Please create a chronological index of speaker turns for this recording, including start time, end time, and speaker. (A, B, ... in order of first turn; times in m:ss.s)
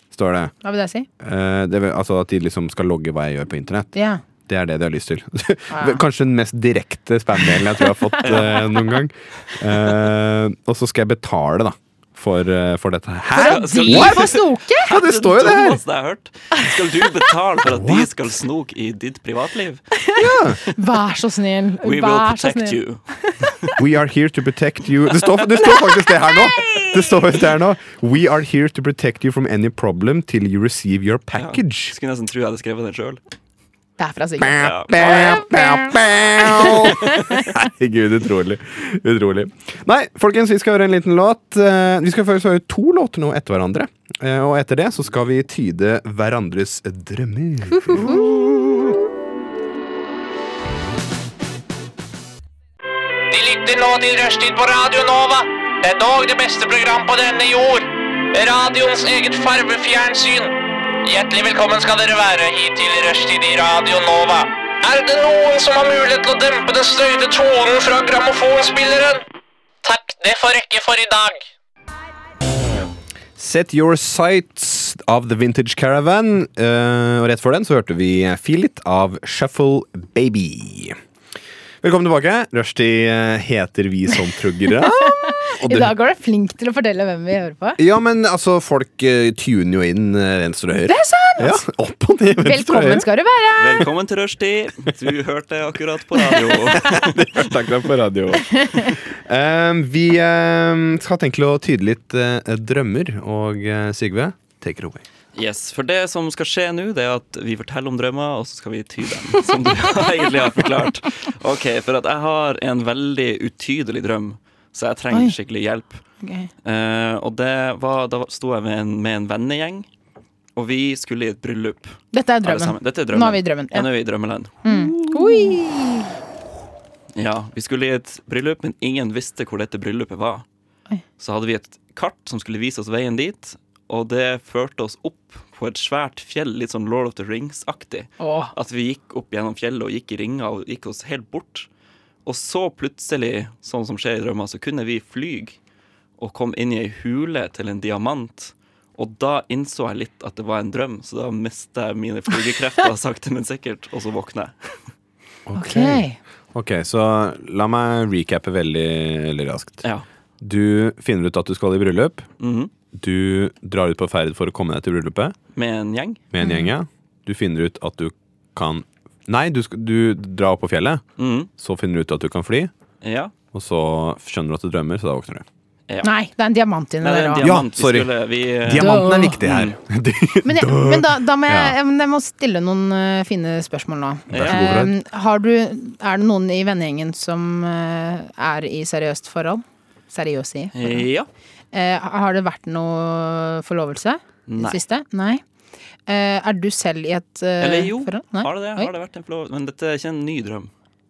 0:00.1-0:00.5 A
0:00.6-0:01.1 B
0:01.2-0:03.9 A
0:03.9-0:04.2 B
0:04.5-0:15.8 A
0:05.7-0:06.0 B
0:07.5-0:08.8 B
0:08.2-0:08.6 C
0:13.4-0:15.0 B
0:13.4-0:19.8 C
0:17.7-0:18.1 A
0:20.0-0:23.5 B
0:20.2-0:20.6 A
0:21.8-0:23.8 C
0:23.8-0:32.0 A
0:25.6-0:27.1 B
0:31.4-0:33.2 C
0:34.0-0:37.6 B
0:34.4-0:49.0 A
0:34.6-0:35.4 C
0:47.7-0:48.5 B
0:53.3-1:09.2 D
1:09.8-1:11.4 D
1:13.4-1:21.0 A
1:21.8-1:25.9 A
1:24.7-1:27.8 B
1:27.8-1:33.1 A
1:30.9-1:31.6 B
1:32.4-1:33.9 B
1:33.6-1:37.5 C
1:36.3-1:36.9 B
1:36.7-1:45.0 A
1:38.5-1:39.0 B
1:45.3-1:56.0 C
1:56.2-1:56.5 B
1:56.6-1:59.9 C
2:00.6-2:05.6 C
2:02.1-2:03.9 B
2:04.6-2:06.1 B
2:07.2-2:10.4 C
2:11.2-2:21.7 C
2:18.2-2:18.5 B
2:22.2-2:25.6 C
2:26.2-2:34.8 C
2:35.5-2:39.8 A
2:35.6-2:36.2 B
2:40.4-2:42.3 A
2:42.4-2:42.7 C
2:42.9-2:45.4 A
2:45.6-2:46.2 C
2:46.3-2:51.0 A
2:46.4-2:46.7 B
2:51.2-2:51.5 C
2:51.6-2:52.7 A
2:53.0-2:53.3 C
2:53.5-2:55.4 A
2:56.0-2:57.5 B
2:57.0-2:59.8 C
2:57.4-3:01.8 A
2:58.8-2:59.4 B
3:00.4-3:11.1 B
3:04.3-3:04.9 A
3:04.3-3:04.6 C
3:10.7-3:11.3 C
3:11.7-3:15.4 B
3:14.5-3:14.8 C
3:16.1-3:18.9 B
3:17.6-3:20.7 C